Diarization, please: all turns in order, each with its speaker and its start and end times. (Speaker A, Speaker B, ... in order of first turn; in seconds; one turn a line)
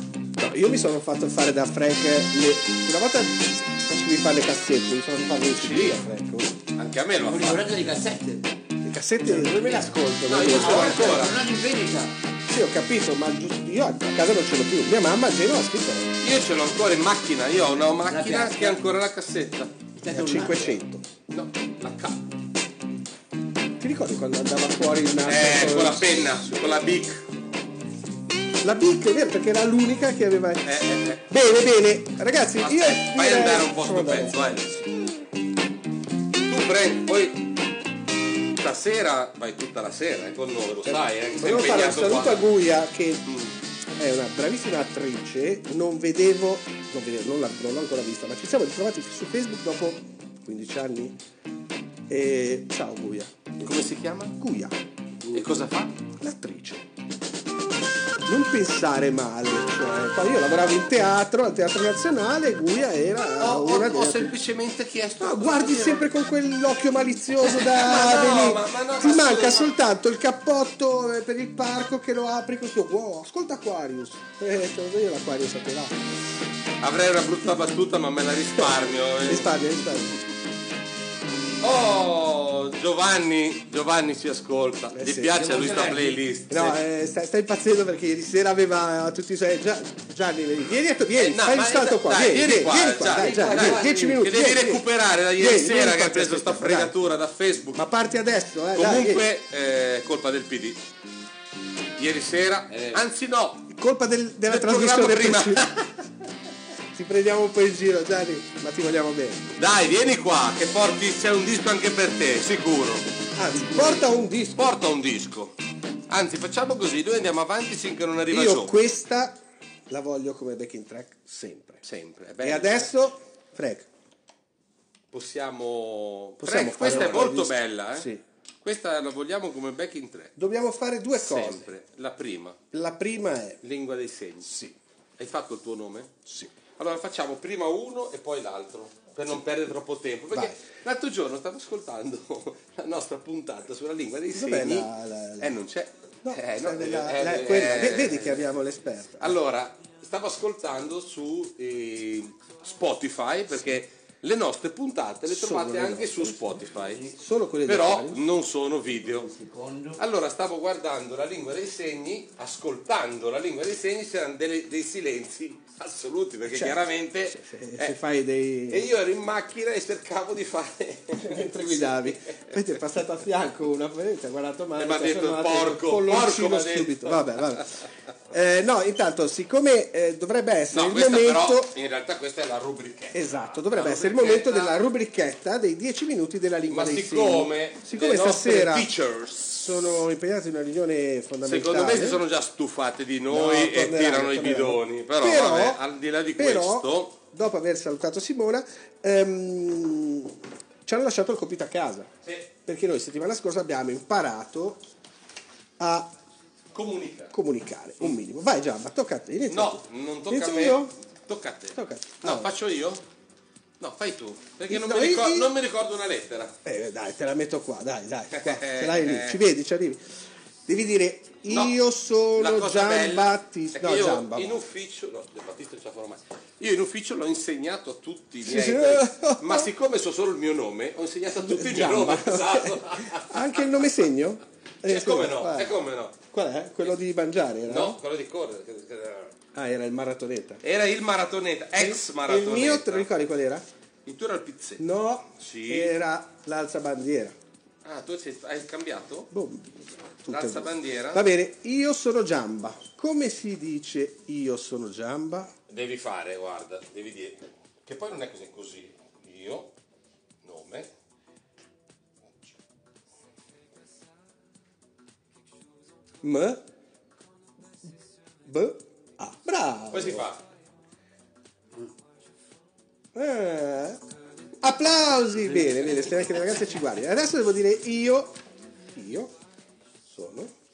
Speaker A: 0.4-6.6
Speaker B: 5.6-6.0
Speaker B: 6.8-7.7
Speaker C: 7.2-8.6
Speaker A: 8.8-11.3
Speaker C: 9.2-12.2
Speaker B: 10.3-11.4
Speaker A: 12.5-16.1
Speaker B: 16.2-19.7
Speaker C: 18.1-18.8
Speaker C: 20.0-20.8
Speaker A: 20.1-21.0
Speaker B: 21.3-22.2
Speaker A: 23.8-26.5
Speaker B: 25.2-27.2
Speaker A: 28.6-34.7
Speaker B: 30.6-31.2
Speaker B: 32.6-34.8
Speaker B: 36.5-37.4
Speaker B: 38.5-42.5
Speaker A: 40.9-43.3
Speaker B: 43.3-43.5
Speaker A: 44.0-51.2
Speaker A: 52.1-54.8
Speaker B: 53.6-54.3
Speaker B: 55.3-56.0
Speaker A: 56.2-56.9
Speaker A: 58.2-64.3
Speaker B: 63.4-66.1
Speaker A: 65.2-76.0
Speaker B: 67.4-69.7
Speaker B: 76.8-80.2
Speaker A: 79.2-80.2
Speaker B: 81.6-86.8
Speaker A: 84.9-85.4
Speaker C: 85.3-86.2
Speaker A: 86.5-96.9
Speaker B: 91.2-97.8
Speaker C: 93.1-94.2
Speaker A: 97.8-99.3
Speaker B: 98.7-100.8
Speaker B: 102.0-103.7
Speaker C: 102.7-103.0
Speaker A: 103.7-105.7
Speaker B: 104.5-105.9
Speaker A: 106.9-109.5
Speaker B: 109.6-113.0
Speaker A: 113.3-114.7
Speaker B: 113.7-114.0
Speaker B: 114.5-115.5
Speaker B: 116.1-118.8
Speaker A: 118.3-121.8
Speaker B: 121.8-122.9
Speaker A: 122.4-123.9
Speaker B: 125.1-128.1
Speaker A: 126.4-128.2
Speaker B: 128.6-130.3
Speaker A: 130.4-131.7
Speaker B: 131.2-132.6
Speaker A: 132.7-133.6
Speaker B: 133.6-134.6
Speaker A: 134.5-134.7
Speaker B: 135.2-136.2
Speaker B: 136.8-148.4
Speaker A: 144.3-145.6
Speaker A: 146.2-149.4
Speaker B: 149.2-157.1
Speaker A: 155.3-158.2
Speaker B: 157.7-159.3
Speaker C: 159.1-160.0
Speaker B: 160.0-168.0
Speaker A: 166.5-168.9
Speaker B: 168.7-172.5
Speaker A: 171.2-177.8
Speaker B: 174.8-177.5
Speaker A: 178.3-181.7
Speaker B: 180.7-184.8
Speaker A: 183.1-188.9
Speaker B: 186.7-189.8
Speaker A: 189.5-192.2
Speaker B: 191.4-197.1
Speaker A: 193.3-195.8
Speaker A: 196.4-202.1
Speaker A: 202.6-204.8
Speaker A: 205.8-206.1
Speaker B: 206.7-207.3
Speaker A: 207.3-210.9
Speaker B: 209.5-213.0
Speaker A: 211.7-212.5
Speaker B: 213.8-216.6
Speaker A: 214.7-215.5
Speaker A: 216.6-220.0
Speaker B: 218.3-219.4
Speaker A: 220.7-224.6
Speaker B: 221.5-221.8
Speaker B: 222.3-233.6
Speaker A: 228.4-229.7
Speaker A: 231.3-238.0
Speaker B: 234.8-236.2
Speaker B: 237.7-239.3
Speaker A: 239.5-240.6
Speaker B: 240.6-243.1
Speaker A: 241.8-243.7
Speaker B: 244.1-244.8
Speaker A: 244.8-247.3
Speaker B: 245.4-245.9
Speaker B: 247.8-249.3
Speaker A: 249.3-255.5
Speaker B: 250.3-251.2
Speaker B: 255.7-259.7
Speaker B: 260.4-260.9
Speaker A: 266.2-266.6
Speaker A: 268.4-270.3
Speaker B: 269.9-270.4
Speaker A: 273.1-274.0
Speaker A: 274.6-278.4
Speaker A: 278.9-279.3
Speaker A: 280.1-280.5